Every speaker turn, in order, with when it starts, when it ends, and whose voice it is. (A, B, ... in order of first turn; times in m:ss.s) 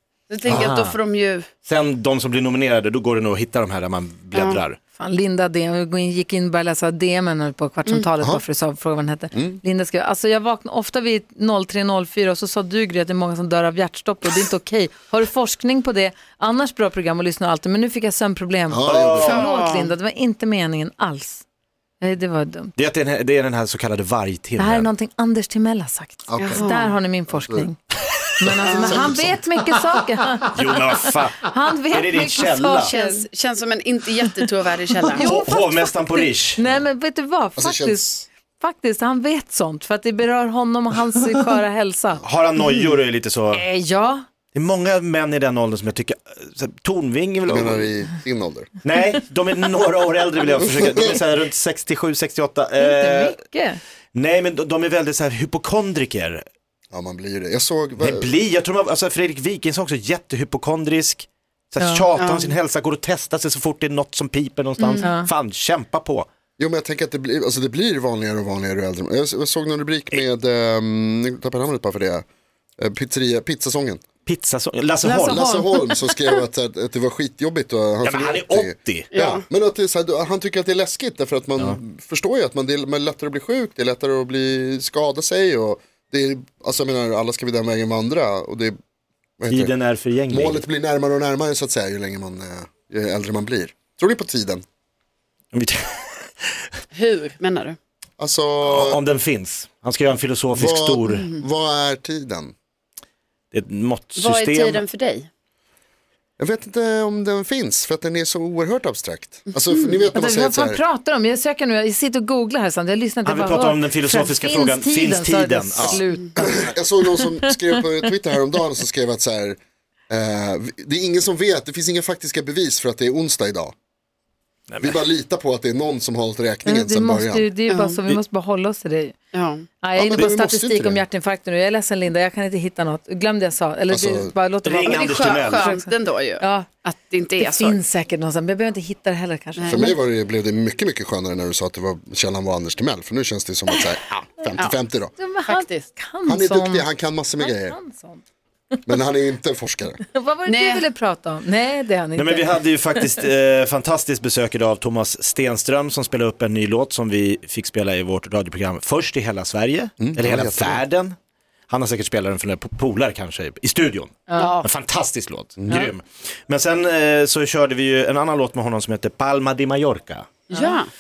0:00.3-0:01.5 A
0:00.4-0:01.0 B
0:00.5-0:00.7 C
0:01.6-0:04.8 B
0:04.3-0:04.6 A
0:04.9-0:21.4 D
0:09.3-0:09.6 C
0:18.7-0:19.3 C
0:18.8-0:19.5 B
0:19.2-0:19.9 A
0:22.0-0:22.7 D
0:22.8-0:24.9 B
0:24.6-0:27.8 D
0:26.3-0:26.6 C
0:26.4-0:26.9 A
0:27.3-0:27.7 C
0:28.4-0:33.2 D
0:28.6-0:29.4 C
0:30.5-0:32.9 B
0:32.4-0:35.3 A
0:35.1-0:35.8 D
0:35.2-0:36.6 B
0:36.5-0:38.1 D
0:37.6-0:38.3 C
0:38.6-0:42.2 D
0:42.2-0:43.6 B
0:43.5-0:44.2 D
0:44.5-0:47.9 B
0:47.5-0:48.7 C
0:48.8-0:53.4 B
0:52.8-0:53.8 D
0:54.1-0:56.4 B
0:56.9-0:58.3 C
0:58.0-1:06.3 B
1:01.8-1:02.1 D
1:02.2-1:02.5 A
1:04.8-1:05.0 A
1:05.0-1:05.3 D
1:06.6-1:12.2 C
1:12.8-1:14.0 C
1:14.2-1:15.4 B
1:15.0-1:15.6 A
1:15.2-1:28.8 C
1:15.3-1:16.0 D
1:18.0-1:19.1 B
1:19.1-1:19.4 A
1:29.4-1:29.7 C
1:29.5-1:30.6 B
1:30.3-1:34.6 C
1:35.5-1:36.6 B
1:36.9-1:37.8 A
1:38.2-1:39.0 C
1:38.6-1:41.3 B
1:40.5-1:42.5 C
1:41.1-1:41.4 A
1:43.5-1:44.8 B
1:44.2-1:45.3 A
1:46.4-1:50.8 C
1:50.1-1:57.8 D
1:53.2-1:56.0 B
1:55.8-1:59.6 C
2:00.1-2:03.7 C
2:04.7-2:05.0 B
2:04.8-2:07.5 C
2:06.6-2:09.2 D
2:07.7-2:08.0 A
2:09.3-2:09.7 A
2:09.8-2:16.7 D
2:10.0-2:11.0 C
2:13.9-2:14.3 C
2:14.6-2:15.7 B
2:14.8-2:17.8 A
2:17.4-2:20.0 D
2:19.6-2:19.9 A
2:19.7-2:25.1 C
2:25.2-2:26.9 D
2:25.4-2:25.9 A
2:26.2-2:27.8 C
2:27.4-2:28.2 D
2:28.9-2:30.0 C
2:30.0-2:32.6 D
2:30.4-2:30.8 A
2:32.2-2:41.2 B
2:40.0-2:40.8 C
2:41.7-2:50.4 B
2:44.3-2:44.5 D
2:44.4-2:44.7 A
2:45.6-2:45.9 C
2:50.5-2:50.9 A